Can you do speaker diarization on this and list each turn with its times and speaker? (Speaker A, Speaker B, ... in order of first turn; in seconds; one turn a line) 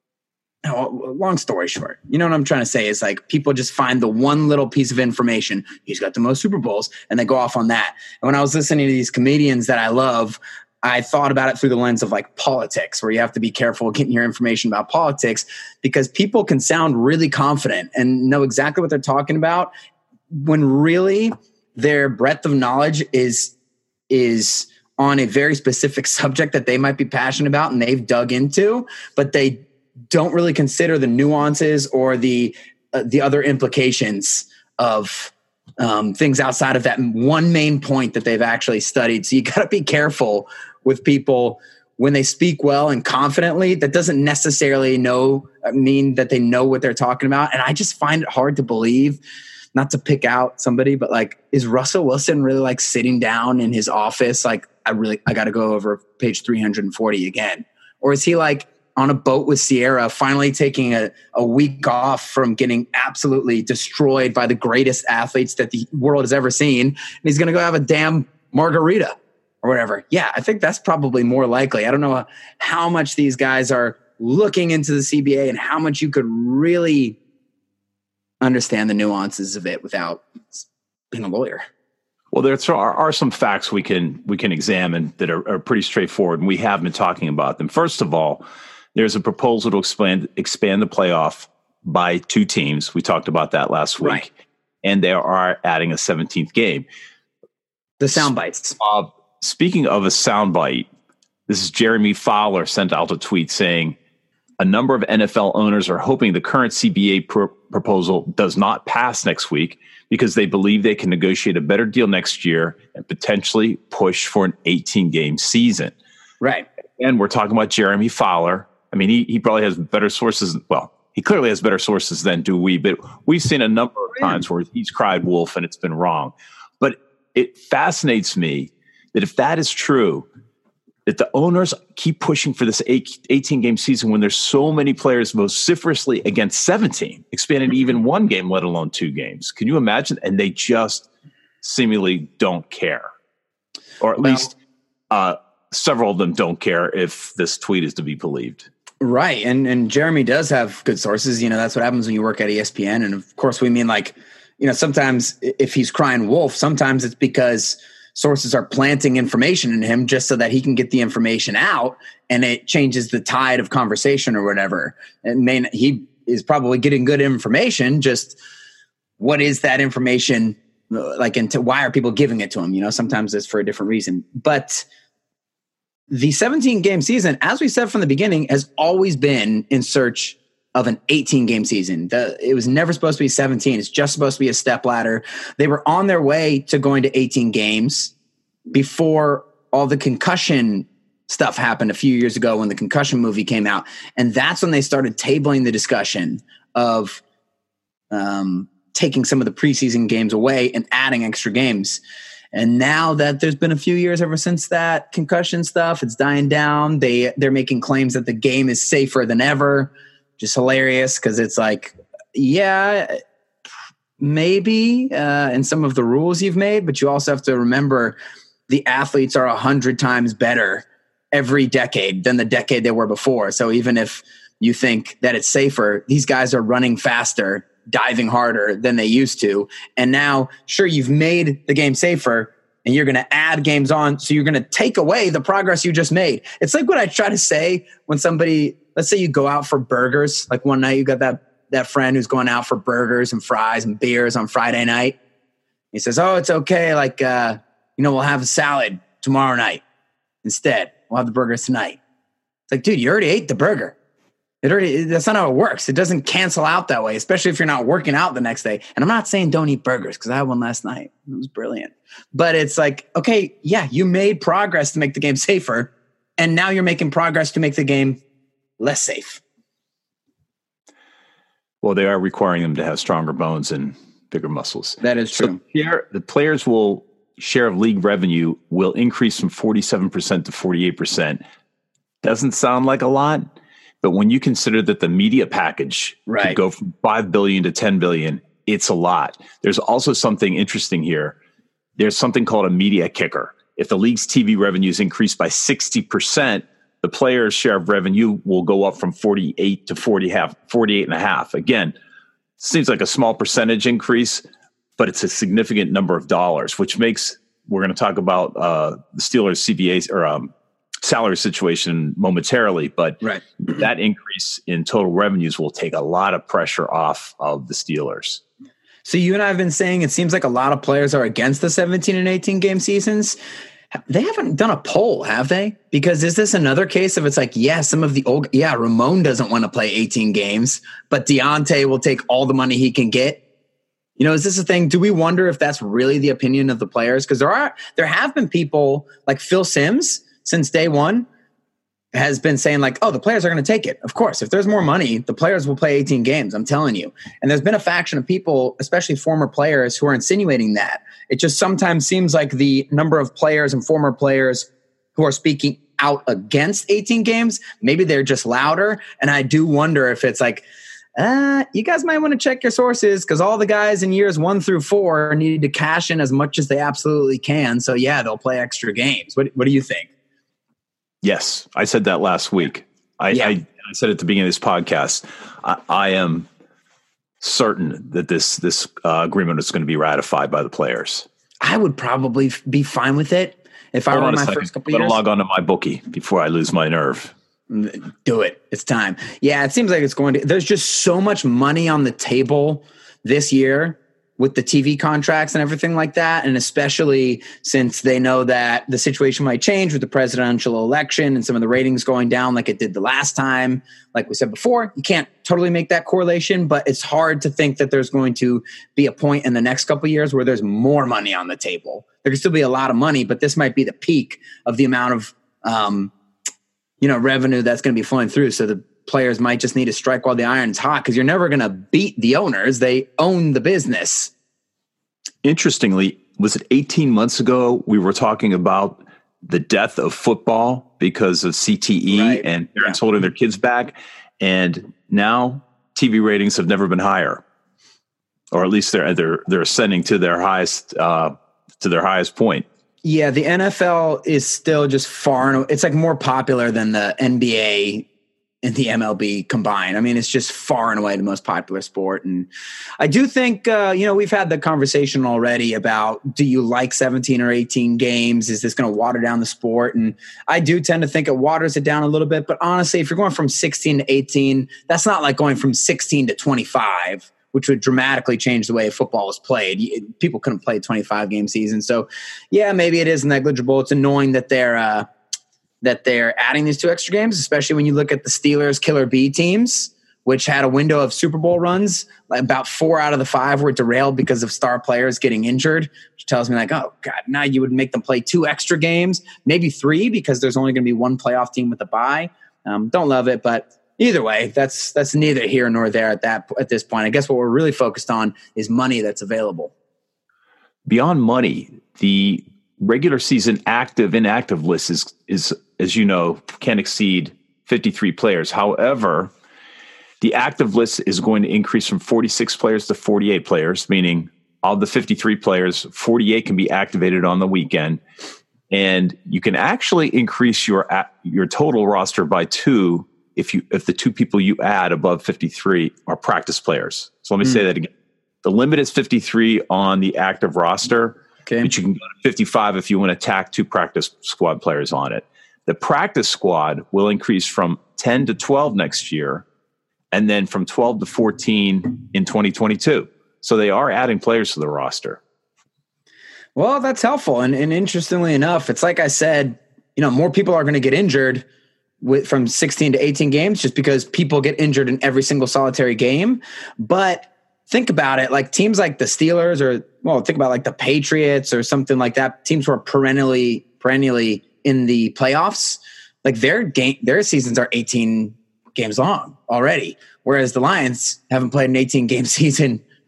Speaker A: 0.6-19.7
Speaker A: 20.3-23.5
Speaker A: 24.1-49.2
Speaker A: 49.7-77.2
Speaker A: 78.4-81.7
Speaker B: 82.3-88.4
Speaker B: 88.9-94.3
Speaker B: 94.8-96.8
Speaker A: 98.0-98.8
Speaker B: 98.8-100.9
Speaker B: 101.5-104.0
Speaker B: 104.6-115.9
Speaker A: 116.4-116.7
Speaker B: 117.0-130.3
Speaker B: 131.1-141.1
Speaker B: 141.6-143.1
Speaker B: 144.0-144.5
Speaker A: 144.2-144.5
Speaker B: 145.1-148.7
Speaker A: 149.0-168.4
Speaker A: 169.2-174.8
Speaker A: 176.1-188.1
Speaker A: 188.7-197.2
Speaker A: 198.1-202.0
Speaker A: 202.5-213.1
Speaker A: 214.2-218.2
Speaker A: 218.7-245.2
Speaker A: 245.9-249.8
Speaker A: 250.4-252.0
Speaker A: 252.7-253.9
Speaker A: 254.6-268.2
Speaker A: 268.8-269.4
Speaker B: 271.8-281.4
Speaker A: 275.0-275.6
Speaker B: 282.2-283.5
Speaker B: 284.0-291.4
Speaker A: 286.3-286.6
Speaker B: 292.0-301.9
Speaker B: 302.6-304.4
Speaker B: 305.0-318.4
Speaker A: 319.0-323.4
Speaker A: 324.1-333.4
Speaker A: 334.2-341.3
Speaker A: 342.1-360.6
Speaker A: 361.2-370.1
Speaker B: 371.2-376.5
Speaker B: 377.4-381.3
Speaker A: 381.6-385.2
Speaker B: 384.1-387.3
Speaker A: 387.7-416.1
Speaker A: 417.0-424.3
Speaker B: 425.4-437.4
Speaker A: 432.1-433.0
Speaker B: 438.5-442.6
Speaker A: 443.0-448.1
Speaker A: 448.6-475.1
Speaker A: 475.8-499.7
Speaker B: 500.9-509.3
Speaker B: 510.2-518.0
Speaker B: 518.7-527.9
Speaker B: 528.4-539.4
Speaker A: 531.5-531.7
Speaker B: 540.1-545.2
Speaker A: 546.5-551.4
Speaker A: 552.0-572.8